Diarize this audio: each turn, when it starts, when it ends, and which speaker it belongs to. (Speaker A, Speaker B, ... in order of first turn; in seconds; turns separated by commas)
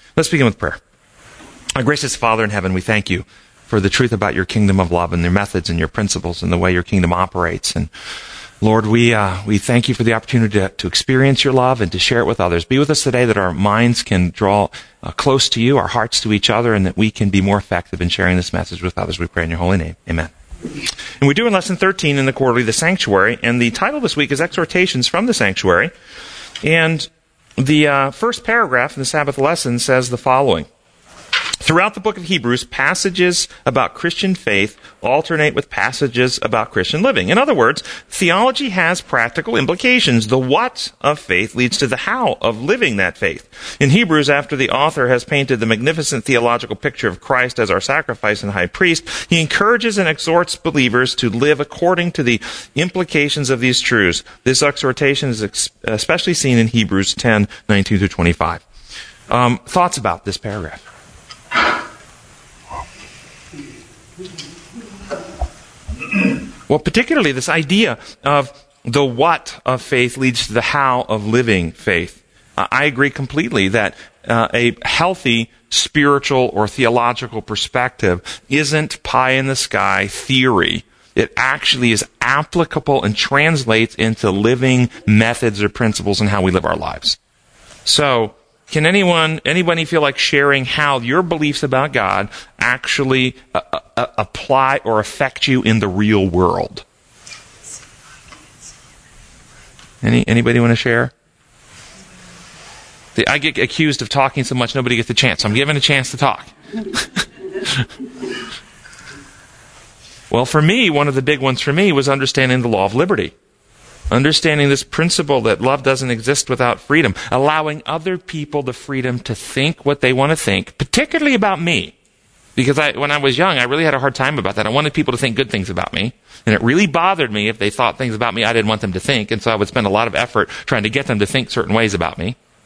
Speaker A: 0.1-0.8, Speaker A: 1.7-7.9, Speaker A: 8.6-20.3, Speaker A: 21.2-25.9, Speaker A: 26.6-30.7, Speaker A: 31.6-58.6, Speaker A: 59.3-60.8, Speaker A: 66.7-87.2, Speaker A: 87.8-96.8, Speaker A: 100.0-101.1, Speaker A: 103.1-107.0, Speaker A: 110.3-113.3, Speaker A: 114.1-121.9, Speaker A: 122.5-132.3